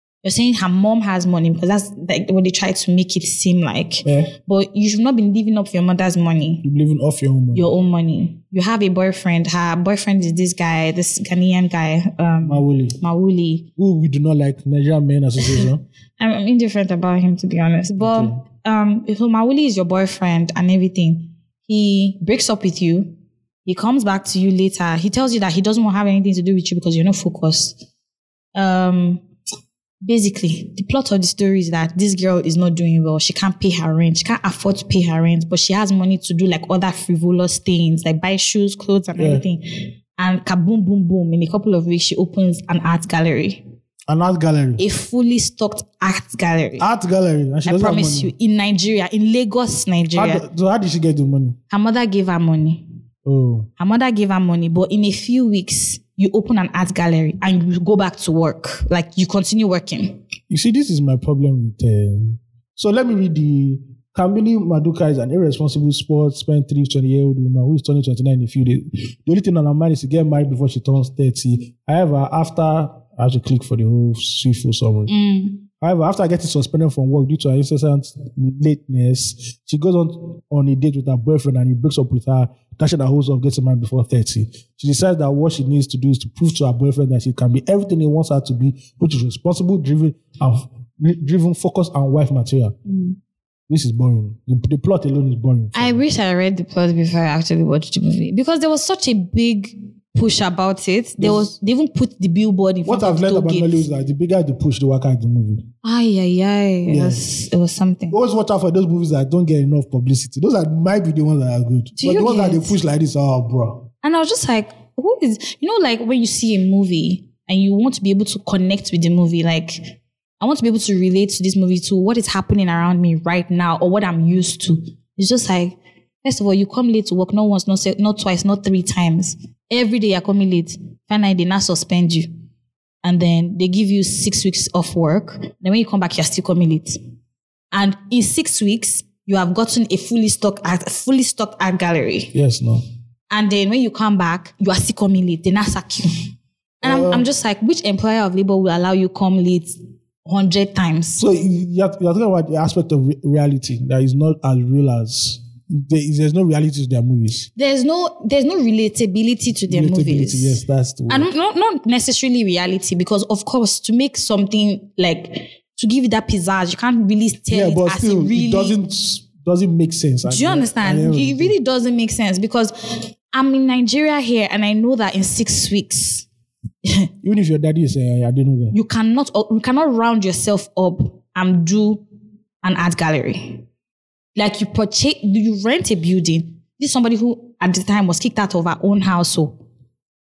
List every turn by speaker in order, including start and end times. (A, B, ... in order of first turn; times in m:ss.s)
0:00.2-0:06.6 A
0:04.0-0:04.3 B
0:06.6-0:07.7 B
0:07.5-0:13.7 A
0:12.4-0:13.0 B
0:13.8-0:15.8 B
0:16.2-0:23.1 A
0:18.0-0:18.4 B
0:23.6-0:27.8 A
0:28.5-0:29.2 A
0:30.0-0:39.6 A
0:39.2-0:39.4 B
0:40.2-0:43.6 A
0:44.1-0:44.8 B
0:44.8-0:46.9 A
0:46.8-0:48.3 B
0:47.6-0:50.4 A
0:50.1-0:51.6 B
0:51.7-0:52.8 A
0:53.2-0:53.7 B
0:53.8-1:00.2 A
1:00.5-1:15.1 B
1:15.1-1:15.6 A
1:15.8-1:32.8 B
1:32.9-1:33.2 A
1:33.7-1:36.0 B
1:35.7-1:43.8 A
1:41.2-1:41.5 B
1:42.8-1:45.6 B
1:45.8-1:48.2 A
1:46.9-1:47.2 B
1:48.1-1:53.8 B
1:51.9-1:52.8 A
1:54.0-2:12.3 A
2:13.0-2:17.0 A
2:17.7-2:22.3 A
2:22.3-2:22.8 B
2:23.3-2:26.1 A
2:26.8-2:27.2 B
2:26.8-2:31.2 A
2:31.2-2:37.5 B
2:37.6-2:48.8 A
2:39.7-2:41.3 B
2:47.5-2:51.5 B
2:50.2-2:52.7 A
2:53.3-2:56.2 A
2:57.2-2:58.8 B
2:58.7-3:02.0 A
3:02.6-3:03.6 A
3:04.4-3:09.6 A